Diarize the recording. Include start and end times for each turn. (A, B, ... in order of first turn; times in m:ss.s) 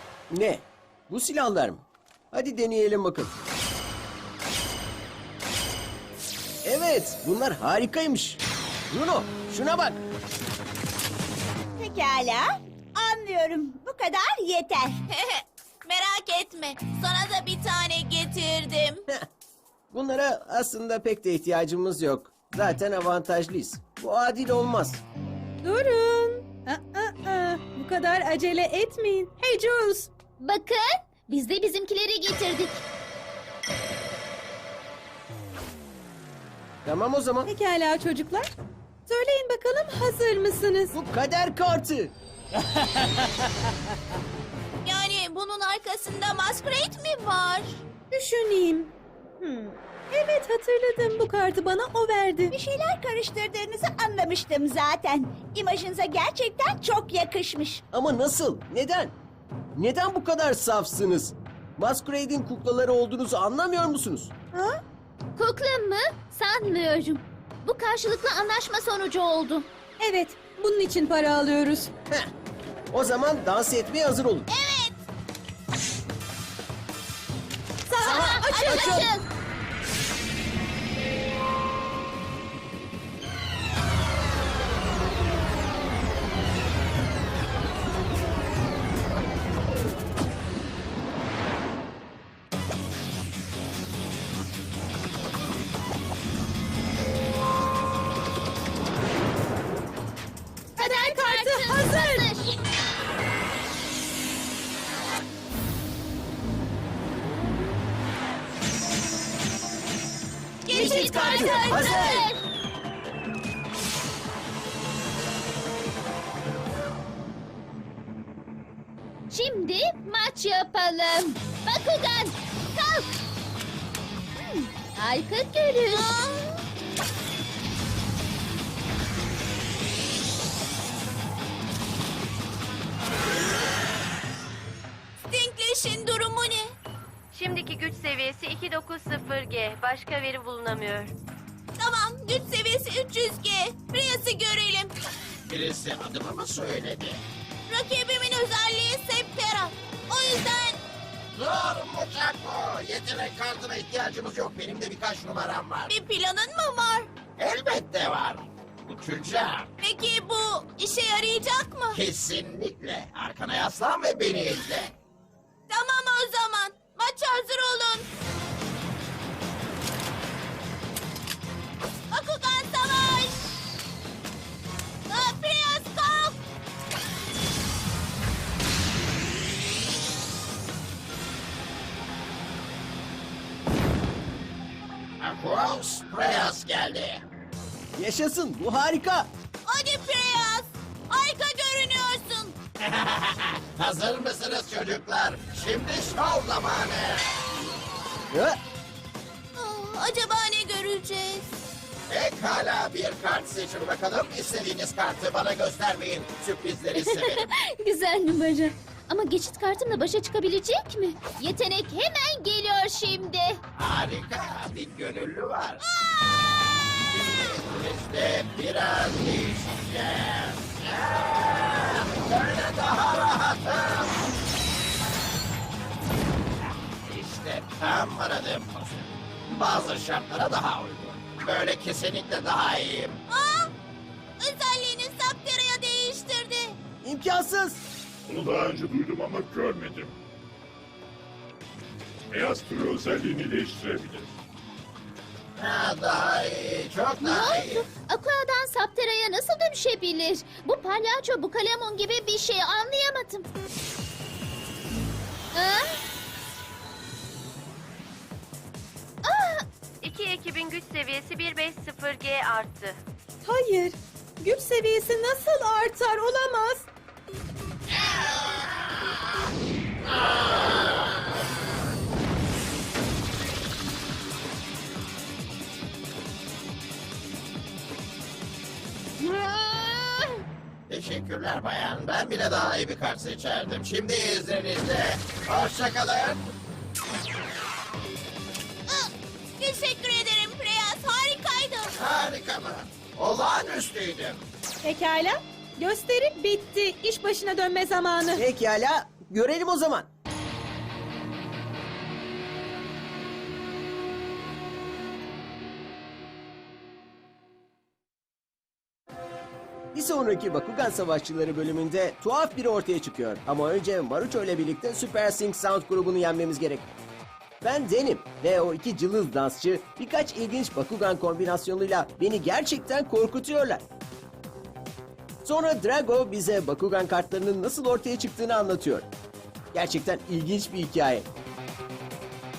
0:00.3-0:03.3 A
0:06.6-0:10.0 A
0:11.8-0:15.0 B
0:15.1-0:19.0 C
0:19.9-0:25.0 A
0:25.6-0:30.1 D
0:30.4-0:32.8 E
0:36.8-0:37.5 A
0:37.5-0:38.5 D
0:39.1-0:40.9 D
0:40.9-0:42.1 A
0:44.8-0:47.8 C
0:48.1-0:52.5 D
0:52.5-0:57.8 B
0:57.9-0:59.2 A
0:59.7-1:04.3 A
1:04.5-1:04.8 D
1:05.4-1:09.7 E
1:10.0-1:11.9 D
1:12.9-1:14.5 A
1:14.5-1:15.0 C
1:17.9-1:19.1 D
1:18.0-1:19.1 A
1:18.0-1:19.3 E
1:40.8-1:42.6 E
1:40.8-1:42.3 D
1:50.6-1:52.2 C
1:50.7-1:52.2 A
1:50.7-1:52.4 E
1:59.3-2:03.1 E
2:04.5-2:06.0 E
2:05.8-2:06.6 C
2:15.3-2:16.7 C
2:17.3-2:21.1 F
2:21.8-2:24.9 C
2:25.4-2:27.2 G
2:27.7-2:30.8 C
2:31.3-2:35.9 G
2:35.9-2:37.1 C
2:37.4-2:39.7 G
2:39.8-2:42.0 C
2:41.9-2:44.9 G
2:45.7-2:48.0 C
2:52.1-2:53.4 C
2:55.1-2:56.4 C
3:05.2-3:07.2 G
3:08.0-3:09.3 A
3:09.6-3:12.6 C
3:12.8-3:17.4 G
3:18.3-3:18.6 A
3:19.5-3:21.5 C
3:22.1-3:27.5 G
3:27.3-3:33.6 E
3:33.8-3:35.8 G
3:37.1-3:44.2 G
3:47.0-3:53.2 G
3:53.3-3:53.7 C
3:54.4-3:56.8 C
3:57.0-3:57.8 A
3:58.2-4:00.2 H
4:02.3-4:04.3 H
4:05.6-4:07.9 G
4:07.2-4:13.5 E
4:15.5-4:16.0 E
4:19.2-4:19.6 E
4:20.0-4:23.0 F
4:23.4-4:26.9 D
4:27.9-4:28.7 G
4:30.1-4:30.9 G
4:39.2-4:40.1 E
4:40.9-4:46.5 G
4:48.9-4:51.9 C
4:52.0-4:54.4 G
4:54.8-4:58.4 D
4:58.3-5:00.1 A
5:09.9-5:16.9 A
5:17.6-5:23.8 A
5:25.4-5:29.1 A
5:29.7-5:31.3 A